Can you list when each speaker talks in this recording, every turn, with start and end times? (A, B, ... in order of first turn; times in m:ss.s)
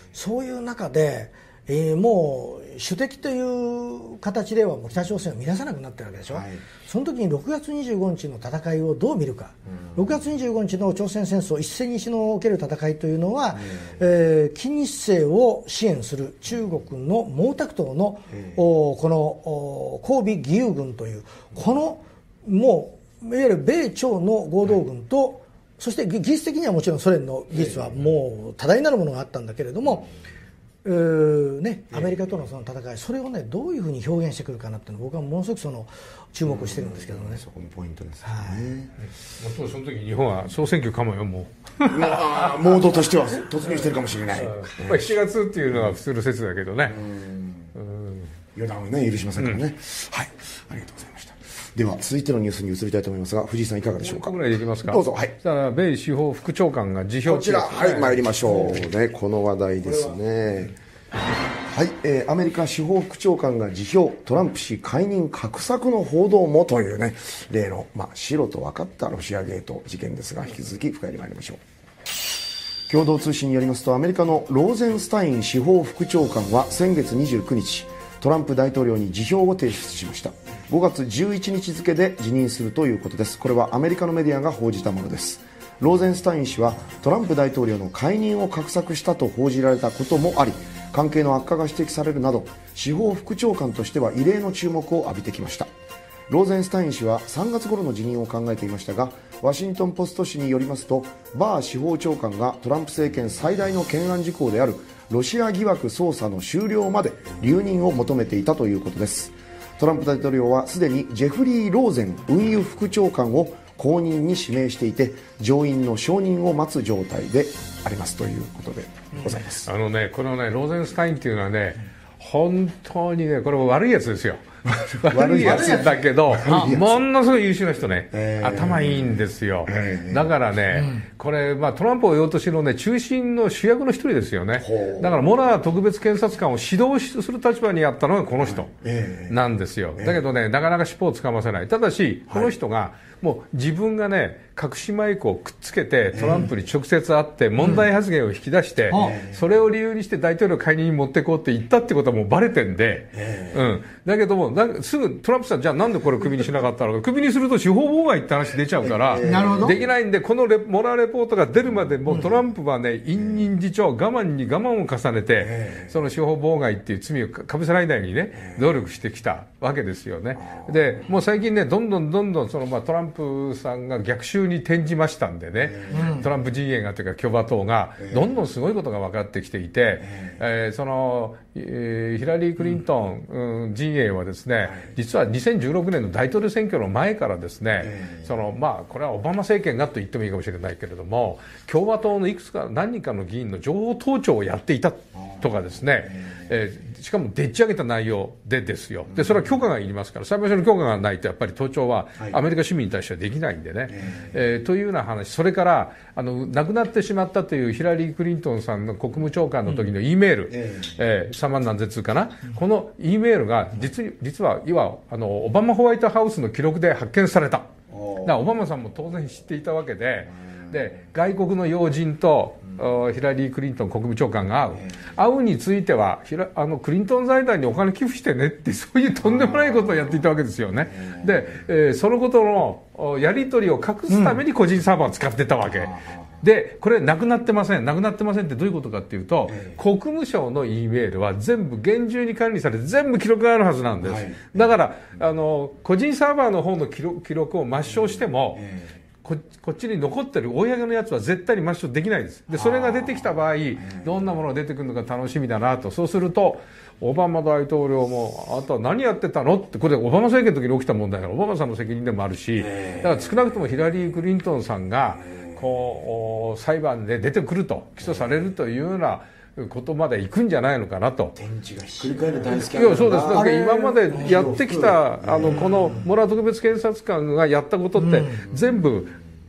0:00.1-0:30.1 A
0:06.3-0:06.6 B
0:13.6-0:14.0 B
0:18.3-0:18.6 B
0:27.5-0:28.0 B
0:30.8-0:37.4 A
0:36.4-0:38.9 B
0:38.2-0:38.7 A
0:39.4-0:42.8 C
0:41.8-0:45.2 B
0:43.7-0:47.0 C
0:46.9-0:47.7 B
0:47.8-0:48.3 C
0:48.5-0:55.3 B
0:54.0-0:58.8 C
0:57.2-1:00.8 B
1:01.6-1:11.6 B
1:12.9-1:35.7 B
1:36.3-1:59.7 B
1:59.6-2:04.4 C
2:04.7-2:07.0 B
2:05.0-2:18.7 C
2:05.4-2:05.8 A
2:08.1-2:10.3 B
2:14.6-2:15.2 B
2:18.4-2:19.4 B
2:19.3-3:37.7 C
2:20.0-2:20.2 B
2:22.3-2:22.5 B
2:26.1-2:26.5 B
2:28.9-2:29.2 A
2:28.9-2:29.4 B
2:33.1-2:33.7 B
2:38.8-2:39.9 B
2:39.2-2:39.8 A
2:45.4-2:45.9 B
2:55.7-2:56.2 B
2:55.9-2:56.2 A
2:58.0-2:58.3 B
3:00.0-3:00.3 B
3:04.6-3:04.9 B
3:07.8-3:08.3 B
3:15.2-3:15.5 B
3:16.0-3:16.3 B
3:19.1-3:19.5 B
3:23.9-3:24.3 B
3:30.5-3:30.9 B
3:37.9-3:38.4 B
3:38.2-4:08.6 C
3:49.2-3:49.8 B
3:51.0-3:51.5 B
3:55.6-3:56.2 B
3:59.5-3:59.8 B
4:04.0-4:04.6 B
4:08.6-4:09.0 B
4:09.2-4:31.4 C
4:12.5-4:13.2 B
4:13.8-4:14.1 B
4:22.6-4:23.4 B
4:31.4-4:36.1 B
4:32.5-4:39.2 C
4:33.2-4:34.4 A
4:38.0-4:38.4 A
4:38.5-4:38.8 B